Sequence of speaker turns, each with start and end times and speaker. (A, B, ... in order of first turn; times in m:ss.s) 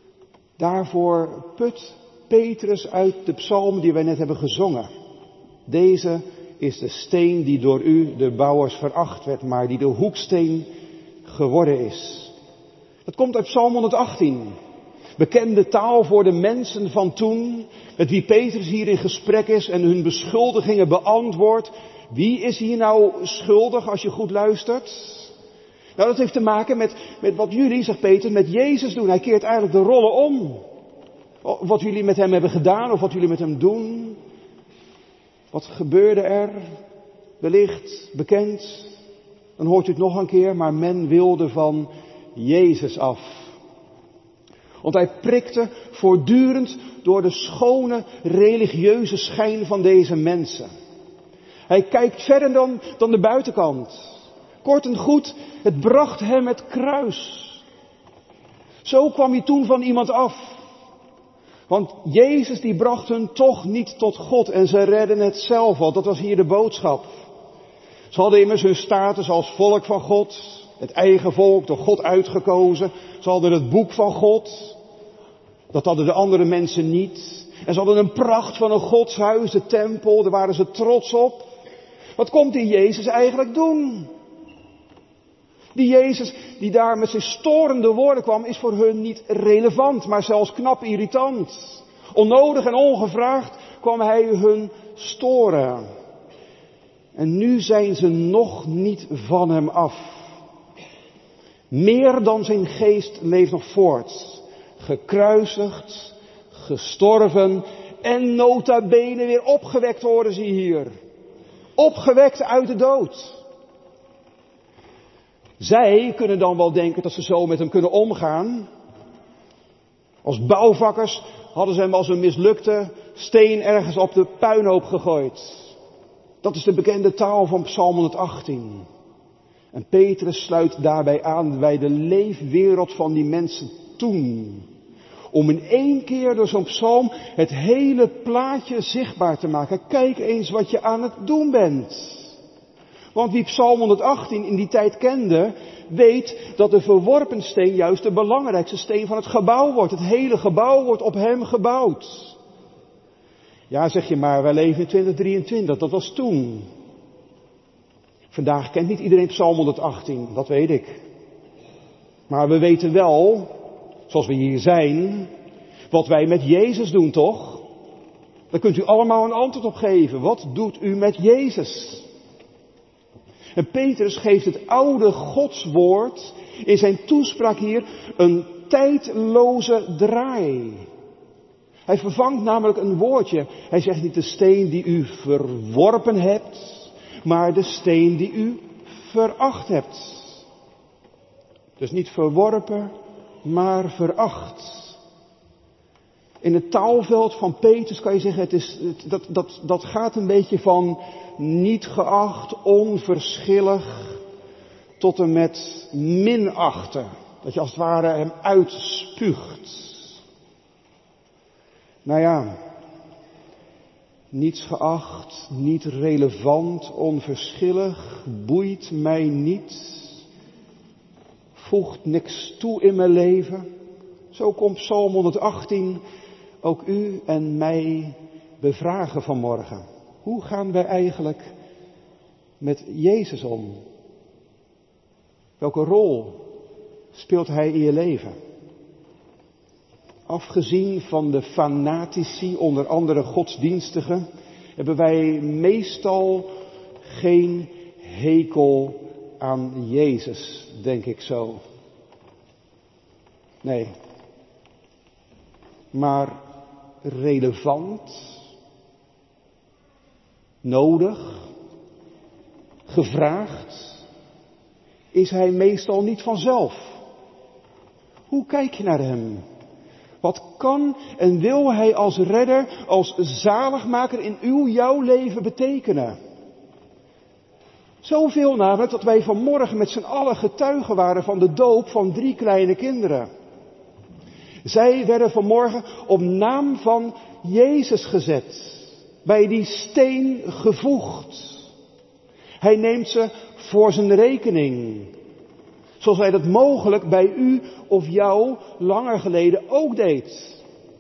0:00.6-0:04.9 A
0:05.7-0:10.7 A
0:11.2-0:12.3 A
0:13.1-0:14.5 A
0:15.2-0:25.3 A
0:26.0-0:30.6 A
0:31.4-0:34.2 A
0:35.5-0:36.7 A
0:37.4-0:39.0 A
0:39.6-0:43.6 A
0:44.8-0:50.7 A
0:51.7-0:57.6 A
0:58.8-1:00.6 A
1:01.7-1:07.2 A
1:08.1-1:14.8 A
1:15.7-1:21.5 A
1:22.2-1:24.1 A
1:25.8-1:35.8 A
1:37.2-1:40.3 A
1:41.7-1:50.9 A
1:51.8-1:53.4 A
1:55.6-1:58.7 A
2:00.2-2:05.8 A
2:06.4-2:08.9 A
2:09.7-2:14.7 A
2:15.3-2:22.4 A
2:23.1-2:32.4 A
2:33.7-2:36.7 A
2:38.3-2:41.0 A
2:42.3-2:43.5 A
2:44.1-2:45.3 A
2:45.9-2:47.6 A
2:48.5-2:52.1 A
2:53.6-3:00.9 A
3:01.9-3:10.4 A
3:11.8-3:12.9 A
3:13.4-3:15.0 A
3:16.4-3:24.2 A
3:25.0-3:30.2 A
3:32.0-3:32.6 A
3:34.3-3:40.2 A
3:41.6-3:43.7 A
3:44.3-3:46.0 A
3:46.6-3:51.5 A
3:52.6-3:53.8 A
3:55.6-3:56.4 A
3:57.1-3:58.4 A
4:00.3-4:04.3 A
4:04.8-4:06.5 A
4:07.1-4:11.6 A
4:13.6-4:13.9 A
4:15.9-4:16.4 A
4:17.0-4:18.4 A
4:20.6-4:21.4 A
4:22.9-4:24.0 A
4:25.1-4:27.0 A
4:28.3-4:29.4 A
4:30.2-4:36.2 A
4:38.0-4:43.3 A
4:44.6-4:51.7 A
4:52.6-4:55.1 A
4:56.0-5:00.6 A